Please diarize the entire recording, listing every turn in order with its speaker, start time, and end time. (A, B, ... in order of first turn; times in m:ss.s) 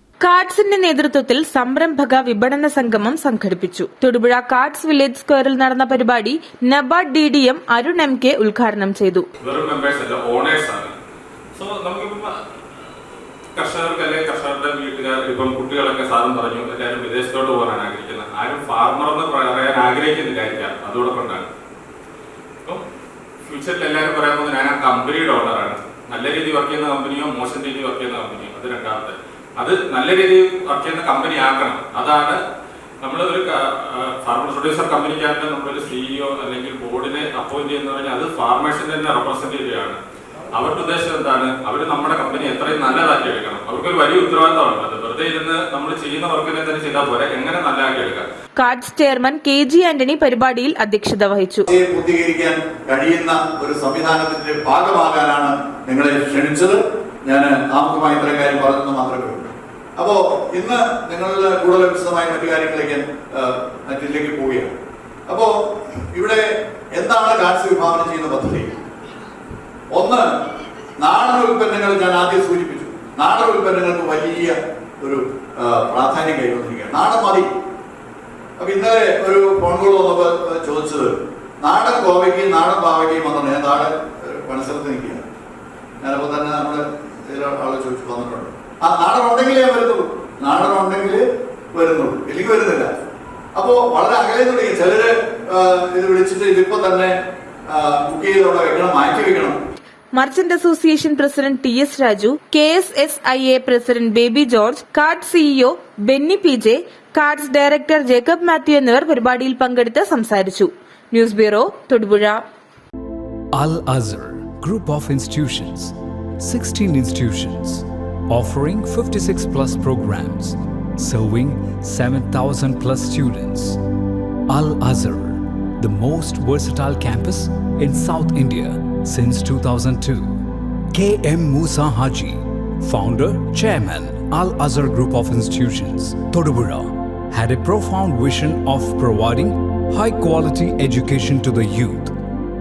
0:00.2-0:09.3 A
0:09.4-0:10.9 B
0:11.6-0:12.4 B
0:13.5-0:21.5 B
0:23.4-0:32.4 B
0:33.0-0:40.0 B
0:40.5-0:48.3 B
0:48.6-0:51.7 A
0:51.7-1:04.7 C
1:05.3-1:05.5 C
1:06.1-1:08.8 C
1:09.9-1:10.2 C
1:11.0-1:17.5 C
1:18.6-1:25.2 C
1:26.0-1:32.9 C
1:33.6-1:37.1 C
1:37.7-1:39.6 C
1:40.2-1:52.4 A
1:53.5-2:03.8 D
2:04.5-2:10.4 D
2:10.9-2:22.2 D